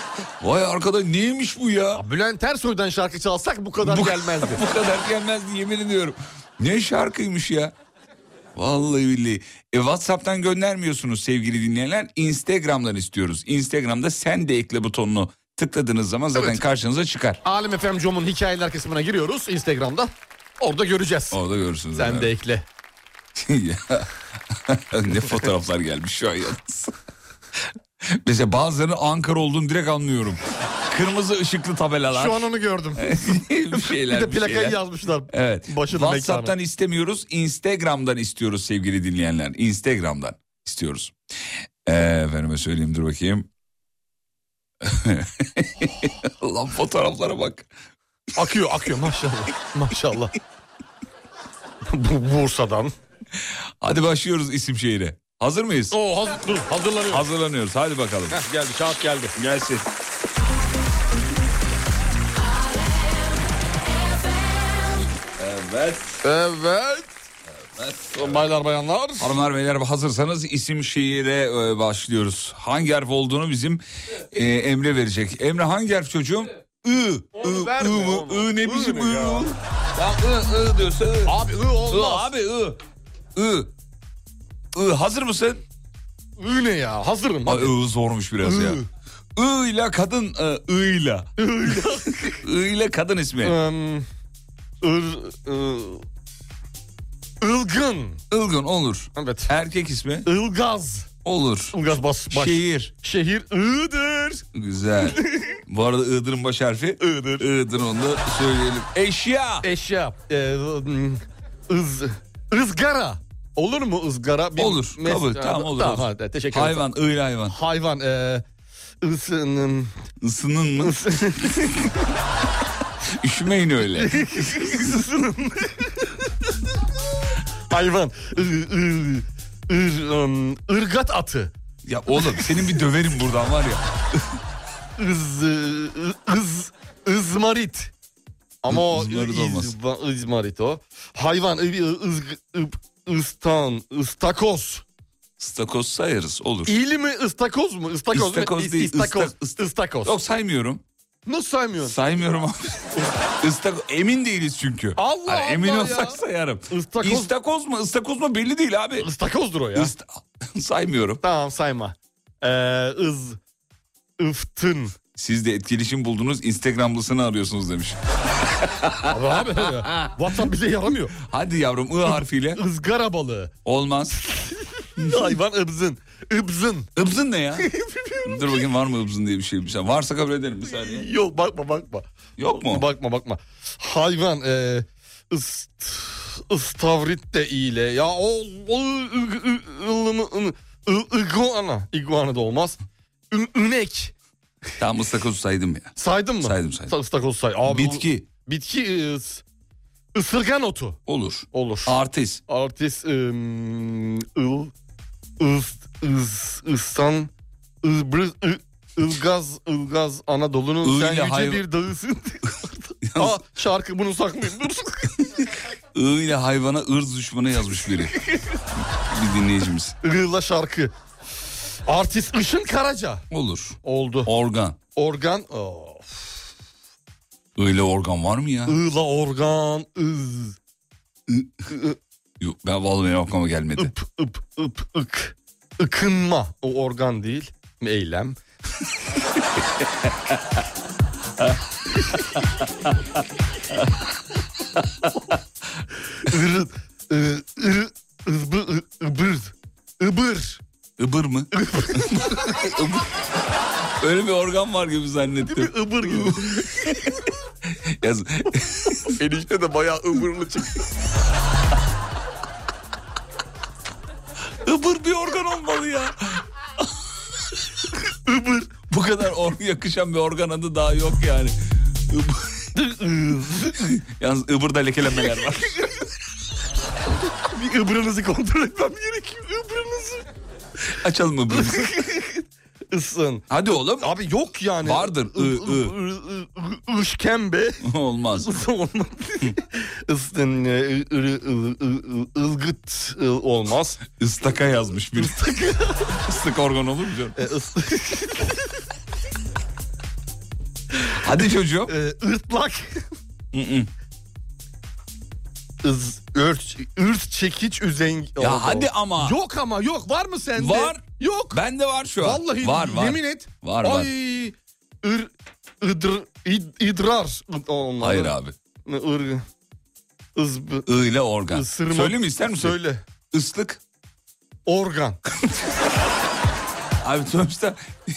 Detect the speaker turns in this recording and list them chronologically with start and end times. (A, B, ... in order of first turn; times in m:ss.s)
0:00.4-0:02.0 A
0:01.9-0:04.6 B
0:03.8-0:07.7 A
0:08.6-0:17.4 A
0:17.4-0:21.4 B
0:21.3-0:22.3 A
0:22.0-0:22.6 B
0:23.4-0:26.9 A
0:28.2-0:32.4 A
0:32.1-0:36.5 B
0:33.0-0:34.8 A
0:35.3-0:41.2 A
0:41.8-0:43.5 A
0:44.8-0:47.7 A
0:48.4-0:50.3 B
0:51.9-0:52.9 B
0:53.4-0:56.0 A
0:55.9-0:57.3 B
0:57.1-0:58.4 A
0:58.3-0:59.3 B
0:59.4-0:59.8 A
1:05.4-1:06.2 A
1:06.2-1:07.1 B
1:07.7-1:08.4 A
1:08.1-1:09.3 B
1:09.2-1:21.4 A
1:17.4-1:19.5 B
1:21.3-1:22.3 B
1:21.9-1:22.8 A
1:23.4-1:23.7 A
1:24.7-1:25.6 A
1:26.4-1:27.8 B
1:27.5-1:28.8 A
1:28.4-1:28.9 B
1:29.4-1:31.3 A
1:31.4-1:32.4 B
1:31.8-1:33.6 A
1:33.4-1:34.1 B
1:34.8-1:36.0 B
1:37.4-1:38.2 B
1:38.3-1:40.3 A
1:39.2-1:39.5 B
1:40.3-1:41.1 B
1:41.2-1:41.8 A
1:41.7-1:44.5 B
1:42.3-1:42.9 A
1:44.5-1:49.7 A
1:45.0-1:45.6 B
1:47.0-1:47.4 B
1:49.6-1:56.9 B
1:54.6-1:57.6 A
1:57.5-1:58.4 B
1:59.0-1:59.9 B
2:00.2-2:01.0 A
2:00.8-2:01.9 B
2:03.2-2:04.3 A
2:04.0-2:06.1 B
2:07.7-2:11.5 B
2:11.9-2:14.3 A
2:12.2-2:12.8 B
2:15.0-2:17.9 B
2:18.6-2:24.8 B
2:18.7-2:19.8 A
2:25.4-2:26.8 A
2:26.7-2:30.2 B
2:28.1-2:30.8 A
2:31.3-2:32.0 B
2:31.8-2:39.1 A
2:35.0-2:36.2 B
2:36.7-2:37.3 B
2:39.0-2:39.9 B
2:39.7-2:41.2 A
2:41.2-2:43.4 B
2:44.2-2:45.0 B
2:45.1-2:48.0 A
2:48.5-2:49.1 A
2:49.1-2:51.2 B
2:49.8-2:50.1 A
2:51.2-2:52.6 A
2:52.6-2:53.5 B
2:53.6-2:54.2 A
2:54.3-2:56.9 B
2:57.0-2:57.7 A
2:57.6-2:58.6 B
2:58.2-3:01.1 A
3:00.7-3:12.8 B
3:02.4-3:02.9 A
3:13.3-3:14.1 B
3:14.8-3:16.9 A
3:16.0-3:19.4 B
3:17.7-3:18.3 A
3:20.1-3:21.0 B
3:21.1-3:22.4 A
3:21.5-3:22.0 B
3:22.5-3:24.7 B
3:25.4-3:27.3 B
3:27.8-3:35.1 B
3:30.8-3:31.6 A
3:33.0-3:33.4 A
3:36.0-3:38.2 A
3:39.1-3:40.0 A
3:40.0-3:40.9 B
3:41.9-3:43.2 B
3:43.3-3:44.8 A
3:43.8-3:44.3 B
3:45.0-3:46.4 B
3:47.6-3:48.8 A
3:48.7-3:50.6 B
3:51.7-3:52.0 B
3:52.4-3:53.9 A
3:53.8-3:58.4 B
4:06.3-4:10.6 B
4:11.0-4:13.1 A
4:11.6-4:12.7 B
4:14.0-4:17.1 A
4:15.5-4:16.8 B
4:18.0-4:19.2 A
4:19.2-4:20.8 B
4:24.6-4:26.8 A
4:28.3-4:28.8 B
4:28.9-4:32.5 A
4:32.8-4:33.8 B
4:33.8-4:35.9 A
4:37.4-4:40.3 B
4:40.9-4:41.9 A
4:41.5-4:47.8 B
4:43.5-4:44.1 A
4:44.8-4:46.0 A
4:47.8-4:48.5 A
4:48.4-4:54.0 B
4:54.1-4:55.4 A
4:55.2-4:56.2 B
4:56.2-4:57.4 A
4:57.4-4:58.6 B
5:01.2-5:01.9 A
5:01.9-5:03.0 B
5:03.5-5:03.9 A
5:05.8-5:11.6 B
5:08.4-5:09.4 A
5:10.6-5:14.1 A
5:12.2-5:18.3 B
5:18.0-5:18.6 A
5:18.9-5:19.4 B
5:20.4-5:20.9 B
5:20.9-5:22.8 A
5:21.5-5:23.0 B
5:23.3-5:23.8 A
5:24.7-5:25.2 B
5:27.0-5:27.8 A